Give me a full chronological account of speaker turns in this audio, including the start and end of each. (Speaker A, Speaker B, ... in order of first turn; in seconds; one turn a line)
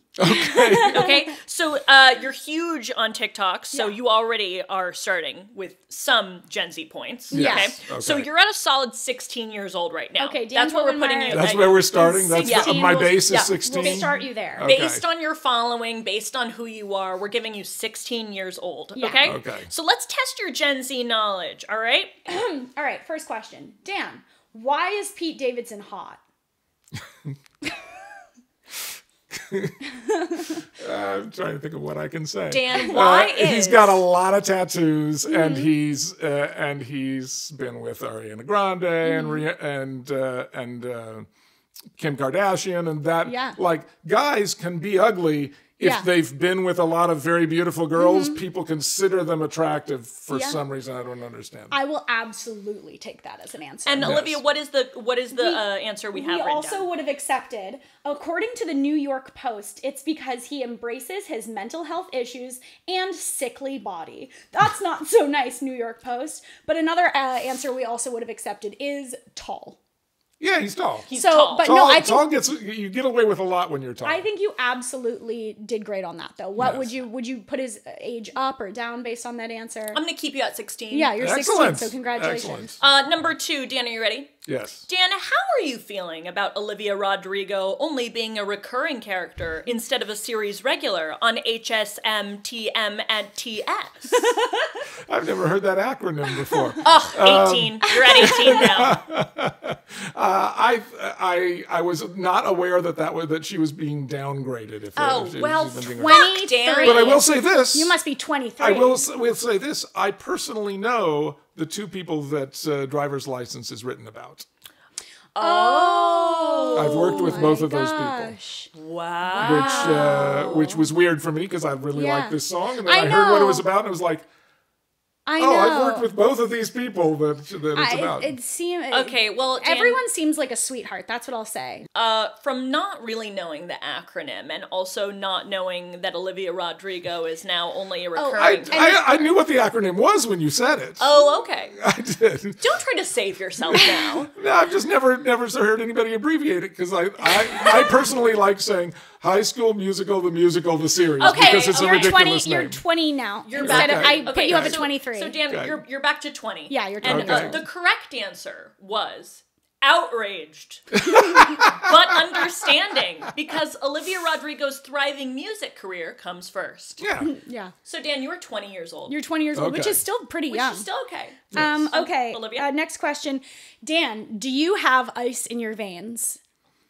Speaker A: 0.2-1.1
Speaker B: 0.2-1.0
Speaker C: 0.8-11.8
Speaker B: 7.3-7.8
Speaker A: 7.3-8.3
Speaker B: 10.2-14.7
Speaker A: 11.3-15.0
Speaker C: 12.4-14.1
Speaker C: 14.6-22.2
Speaker B: 18.9-19.3
Speaker A: 19.2-19.7
Speaker B: 22.2-26.2
Speaker A: 27.0-27.4
Speaker A: 29.3-29.9
Speaker A: 30.5-41.3
Speaker C: 32.5-34.0
Speaker B: 35.3-35.7
Speaker B: 39.0-39.4
Speaker A: 42.0-51.8
Speaker B: 43.2-43.6
Speaker B: 45.8-46.1
Speaker B: 48.0-48.4
Speaker C: 50.3-50.6
Speaker B: 51.7-54.2
Speaker C: 53.9-56.9
Speaker A: 54.0-54.4
Speaker B: 55.3-69.8
Speaker A: 70.4-74.2
Speaker C: 71.1-71.7
Speaker B: 71.1-72.3
Speaker B: 74.0-80.0
Speaker A: 76.6-77.0
Speaker C: 79.9-81.2
Speaker B: 80.9-82.8
Speaker A: 81.2-82.9
Speaker C: 82.8-94.3
Speaker A: 84.5-84.9
Speaker A: 95.0-108.0
Speaker C: 96.8-99.0
Speaker B: 98.1-98.4
Speaker C: 105.0-107.2
Speaker B: 106.0-109.0
Speaker A: 108.6-114.5
Speaker C: 115.3-117.5
Speaker B: 115.4-118.7
Speaker A: 116.7-118.3
Speaker C: 118.7-120.7
Speaker B: 119.3-120.6
Speaker A: 119.4-124.2
Speaker B: 121.9-123.7
Speaker B: 125.2-126.1
Speaker A: 125.4-128.3
Speaker B: 127.7-131.8
Speaker C: 128.9-130.0
Speaker C: 131.9-139.0
Speaker B: 138.2-139.3
Speaker A: 138.4-141.2
Speaker C: 141.0-141.8
Speaker A: 141.8-142.6
Speaker C: 142.6-144.3
Speaker A: 143.7-152.8
Speaker C: 151.2-152.2
Speaker B: 151.2-155.3
Speaker C: 153.4-167.0
Speaker A: 153.6-154.9
Speaker A: 155.5-155.8
Speaker B: 156.7-157.7
Speaker A: 157.0-157.6
Speaker A: 160.9-162.4
Speaker A: 167.0-167.3
Speaker B: 167.2-167.7
Speaker C: 167.8-169.2
Speaker B: 169.1-170.8
Speaker A: 169.5-170.0
Speaker C: 170.5-172.7
Speaker B: 171.5-176.4
Speaker A: 171.5-171.9